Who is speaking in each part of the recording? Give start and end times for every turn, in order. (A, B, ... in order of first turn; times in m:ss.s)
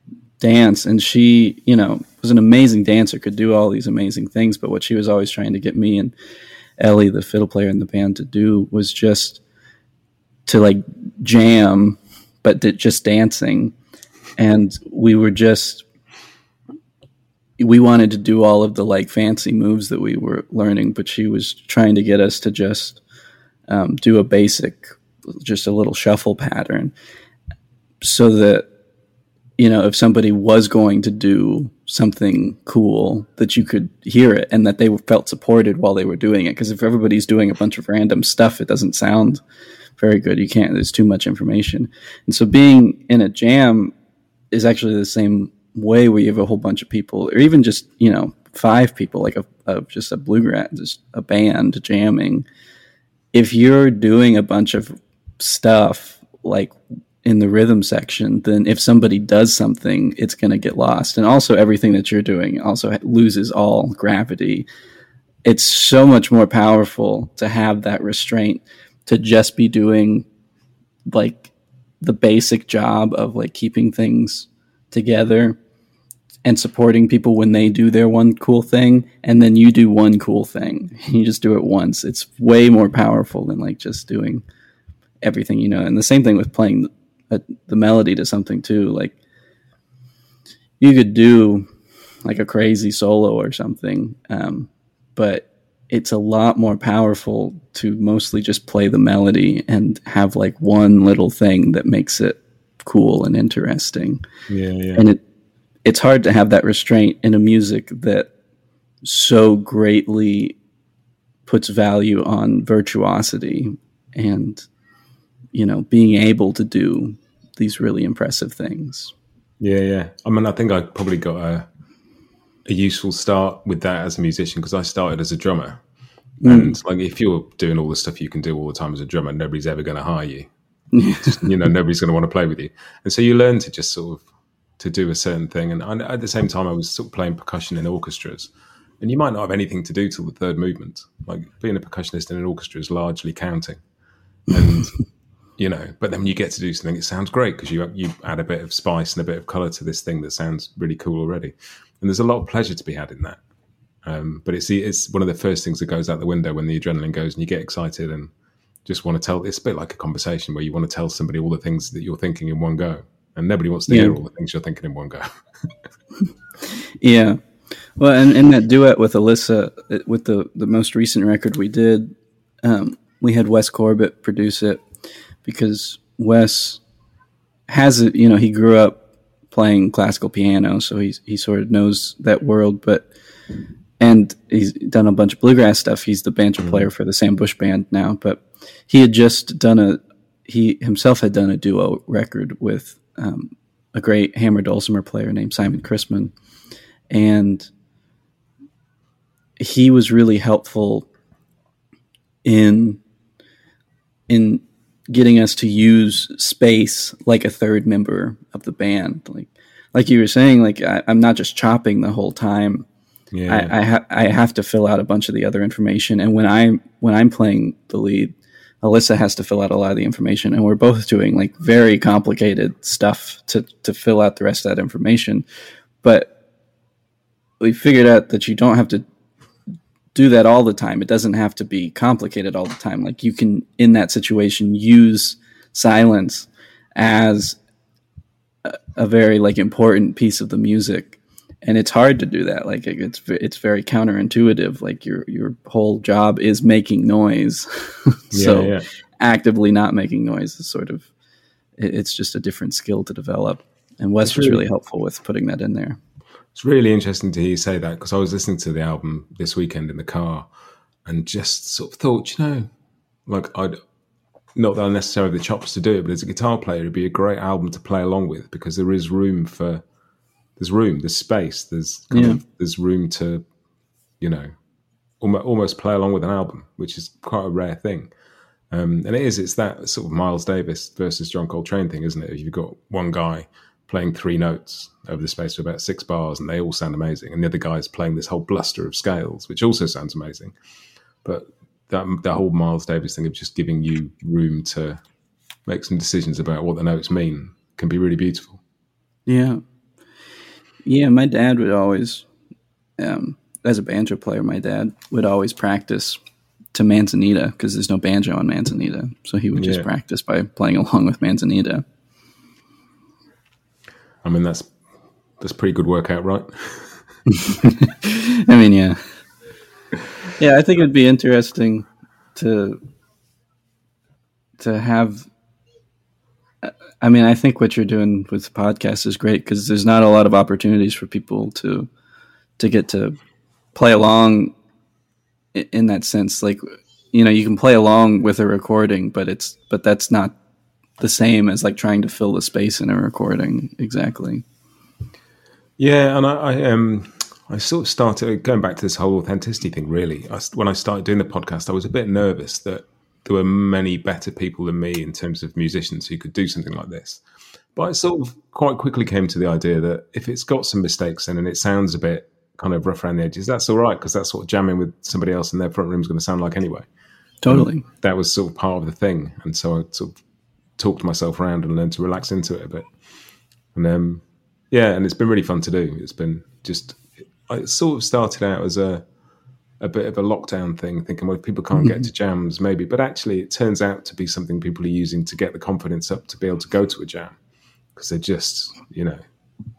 0:00.4-0:06.1 A
0:06.8-0:09.4 A
0:10.4-0:13.7 A
0:14.4-0:15.8 A
0:17.6-0:23.0 A
0:23.7-0:26.9 A
0:28.0-0:28.7 A
0:29.6-0:39.4 A
0:40.0-0:43.9 A
0:44.5-0:52.4 A
0:53.3-1:04.7 A
1:05.4-1:10.2 A
1:11.0-1:11.5 A
1:12.0-1:15.6 A
1:16.4-1:24.4 A
1:25.2-1:29.2 A
1:30.8-1:31.6 A
1:32.2-1:44.2 A
1:44.5-1:45.0 B
1:45.8-1:48.3 A
1:49.0-1:50.6 A
1:51.5-1:54.6 A
1:55.5-1:59.1 A
1:59.6-2:01.7 B
2:02.6-2:05.8 B
2:06.4-2:06.8 A
2:06.4-2:10.5 B
2:10.9-2:11.4 A
2:11.2-2:14.2 B
2:14.8-2:23.8 B
2:24.5-2:25.0 B
2:25.6-2:33.4 B
2:34.0-2:38.3 B
2:38.8-2:45.3 B
2:43.9-2:44.2 A
2:47.0-2:47.4 A
2:48.0-2:52.1 A
2:52.6-2:54.8 A
2:55.4-2:56.8 A
2:57.7-3:03.1 A
3:04.0-3:16.3 A
3:17.1-3:17.7 A
3:19.6-3:21.1 A
3:22.4-3:23.0 A
3:24.3-3:32.9 A
3:33.3-3:33.7 B
3:33.5-3:45.4 A
3:46.0-3:46.3 A
3:47.6-3:49.0 A
3:50.1-3:57.6 A
3:58.6-4:11.1 A
4:08.3-4:08.8 B
4:11.8-4:16.0 A
4:14.2-4:14.6 B
4:16.5-4:20.5 B
4:21.0-4:22.7 B
4:23.3-4:23.8 B
4:24.6-4:29.8 B
4:30.6-4:33.4 B
4:32.1-4:32.4 A
4:34.2-4:34.5 B
4:35.2-4:38.1 B
4:38.7-4:50.5 B
4:51.2-4:55.0 B
4:55.7-4:58.6 B
4:59.3-4:59.6 A
5:00.8-5:02.2 A
5:03.0-5:06.2 A
5:06.7-5:11.8 A
5:09.6-5:09.9 B
5:14.2-5:14.7 B
5:15.4-5:17.0 B
5:17.3-5:19.0 A
5:20.4-5:22.8 A
5:24.6-5:25.3 A
5:26.6-5:31.9 A
5:32.6-5:33.2 A
5:33.7-5:34.5 A
5:35.5-5:36.6 A
5:37.1-5:40.4 A
5:41.0-5:44.4 A
5:45.8-5:57.2 B
5:57.7-6:06.8 B
6:07.4-6:07.8 A
6:07.5-6:10.2 B
6:10.8-6:12.9 B
6:13.7-6:19.0 B
6:19.8-6:27.3 B
6:27.9-6:29.2 B